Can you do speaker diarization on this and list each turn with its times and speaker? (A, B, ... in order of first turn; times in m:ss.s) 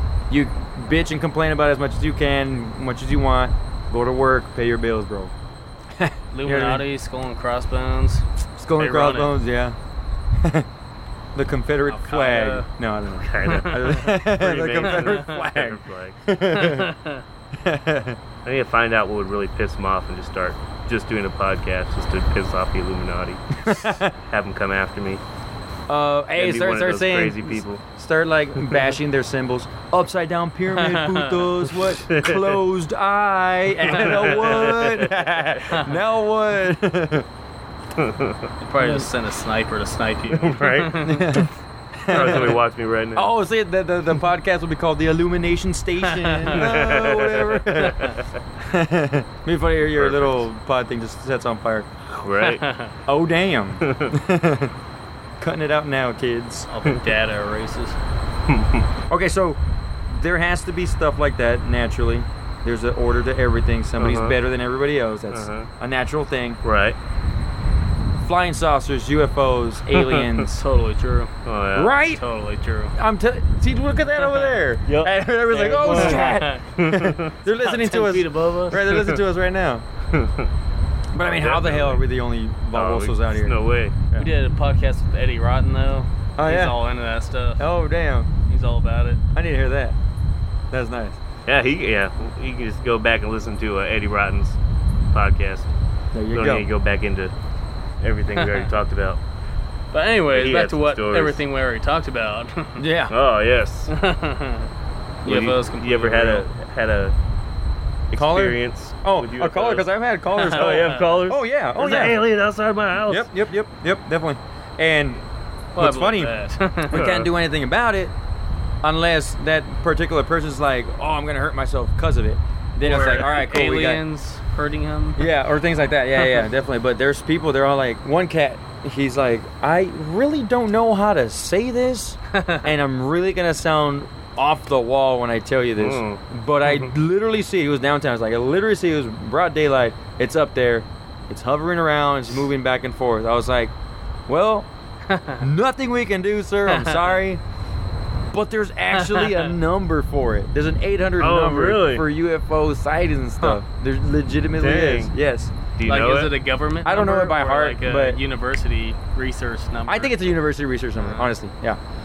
0:00.3-0:05.3 A
0:06.0-0:06.8 A
0:06.3-0:08.2 B
0:08.6-0:09.8 A
0:08.8-0:09.4 B
0:10.4-0:10.7 A
0:11.3-0:16.9 A
0:11.9-0:12.7 B
0:13.2-0:16.2 C
0:13.5-0:14.1 B
0:14.8-0:15.4 B
0:16.5-0:17.2 B
0:17.6-0:18.2 A
0:18.4-0:25.2 C
0:23.6-0:24.1 A
0:25.9-0:37.3 A
0:26.3-0:27.8 C
0:30.7-0:31.5 B
0:32.1-0:32.6 C
0:33.8-0:35.3 C
0:38.0-0:38.5 C
0:38.6-0:41.4 B
0:40.3-0:41.1 C
0:41.0-0:42.6 A
0:42.1-0:43.3 C
0:43.1-0:48.1 A
0:46.0-0:46.7 B
0:46.5-0:48.2 C
0:48.6-0:51.9 A
0:49.8-0:50.5 C
0:52.2-0:52.6 C
0:52.4-0:52.9 B
0:53.1-0:54.7 A
0:53.8-0:54.1 C
0:55.4-0:56.7 A
0:56.7-0:58.0 B
0:58.5-0:58.9 C
0:59.1-1:06.6 A
1:04.0-1:04.4 C
1:05.3-1:05.7 C
1:06.6-1:07.0 C
1:08.2-1:10.6 A
1:09.9-1:10.3 C
1:10.4-1:11.3 B
1:11.4-1:11.9 C
1:11.7-1:12.2 A
1:12.0-1:12.9 B
1:13.0-1:19.8 A
1:14.2-1:14.6 B
1:14.8-1:17.3 C
1:15.5-1:16.6 B
1:17.6-1:18.9 B
1:18.9-1:19.2 C
1:20.1-1:20.5 C
1:21.1-1:23.6 A
1:21.2-1:22.1 C
1:22.7-1:24.0 C
1:24.1-1:27.7 B
1:26.4-1:26.8 A
1:27.6-1:28.3 A
1:28.5-1:29.2 B
1:29.3-1:30.0 A
1:30.7-1:31.2 A
1:31.4-1:34.6 C
1:35.1-1:35.7 C
1:36.1-1:36.7 A
1:36.3-1:37.3 C
1:38.0-1:39.2 C
1:38.4-1:38.7 B
1:39.9-1:42.8 B
1:40.3-1:41.4 C
1:42.8-1:43.1 A
1:43.1-1:43.9 C
1:43.9-1:44.7 B
1:45.2-1:46.5 B
1:45.2-1:47.1 C
1:48.1-1:49.9 C
1:48.1-1:52.2 A
1:50.4-1:51.2 B
1:50.4-1:53.3 C
1:53.1-1:55.2 A
1:55.7-1:57.1 B
1:55.8-1:56.3 A
1:56.9-1:58.1 A
1:56.9-1:57.3 C
1:58.8-2:04.0 A
2:02.8-2:05.2 B
2:05.2-2:23.7 A
2:12.3-2:12.6 B
2:15.8-2:16.9 C
2:24.3-2:24.7 A
2:25.1-2:25.4 B
2:25.4-2:27.4 A
2:26.7-2:27.2 B
2:28.3-2:35.5 A
2:28.9-2:29.5 B
2:31.2-2:32.0 C
2:34.6-2:35.1 C
2:35.8-2:36.3 C
2:35.8-2:40.4 B
2:36.8-2:38.2 A
2:39.9-2:41.8 A
2:41.0-2:41.3 B